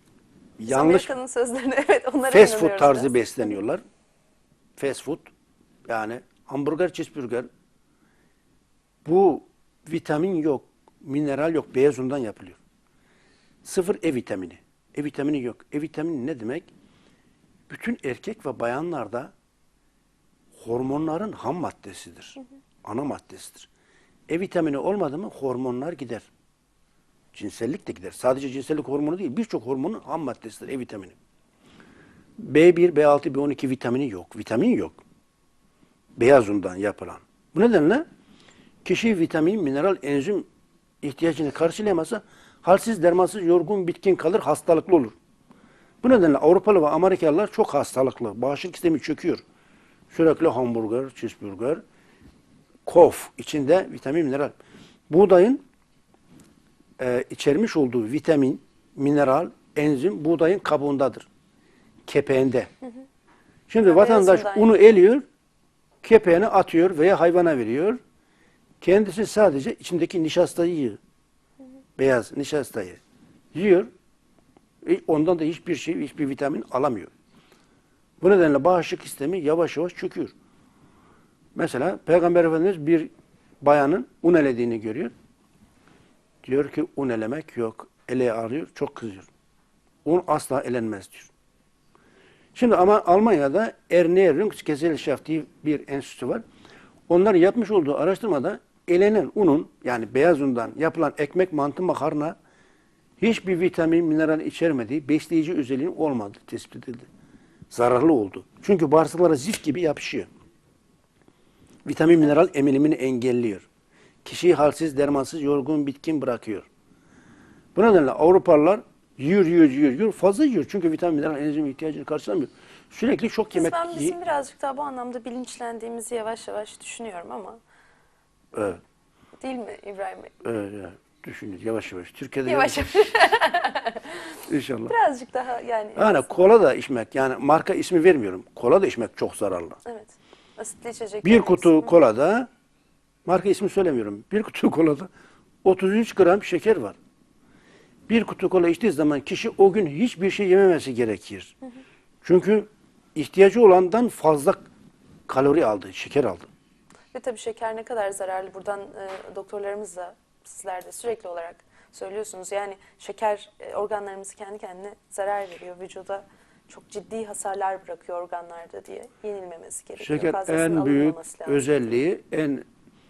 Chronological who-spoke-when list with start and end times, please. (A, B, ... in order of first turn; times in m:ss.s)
0:00.6-0:01.1 A
0:00.7-0:03.2 B
0:02.3-0:03.8 A
0:04.8-0:05.2 A
0:05.9-0:07.5 A
0:09.0-0:12.6 A
0:13.6-0:16.7 A
0:17.7-0:19.3 A
0:20.6-0:23.7 A
0:24.3-0:26.3 A
0:27.3-0:31.2 A
0:32.4-0:35.0 A
0:36.2-0:38.0 A
0:38.8-0:40.5 A
0:41.0-0:45.2 A
0:46.0-0:49.4 A
0:50.1-0:51.8 A
0:52.9-0:54.5 A
0:55.1-0:55.6 A
0:57.0-1:01.3 A
1:02.1-1:02.7 A
1:03.7-1:05.2 A
1:03.8-1:04.8 B
1:06.0-1:08.0 A
1:08.8-1:11.0 A
1:12.0-1:13.0 A
1:13.5-1:13.9 A
1:14.8-1:17.1 A
1:18.2-1:20.3 A
1:21.6-1:23.1 A
1:23.6-1:25.1 A
1:26.4-1:29.3 A
1:30.0-1:31.3 A
1:32.6-1:36.4 A
1:37.1-1:42.4 A
1:43.2-1:47.1 A
1:47.7-1:50.3 A
1:51.9-1:53.7 A
1:54.2-1:56.7 A
1:57.8-2:04.2 A
2:03.5-2:07.6 B
2:08.5-2:08.8 A
2:09.4-2:10.3 B
2:10.4-2:13.1 A
2:12.4-2:14.4 B
2:14.5-2:14.9 A
2:14.9-2:16.5 B
2:16.0-2:19.8 A
2:19.8-2:22.0 B
2:21.2-2:22.5 A
2:23.3-2:25.1 A
2:25.6-2:27.0 A
2:28.1-2:31.6 A
2:32.2-2:34.6 A
2:35.3-2:36.5 A
2:37.1-2:51.8 B
2:50.0-2:52.6 A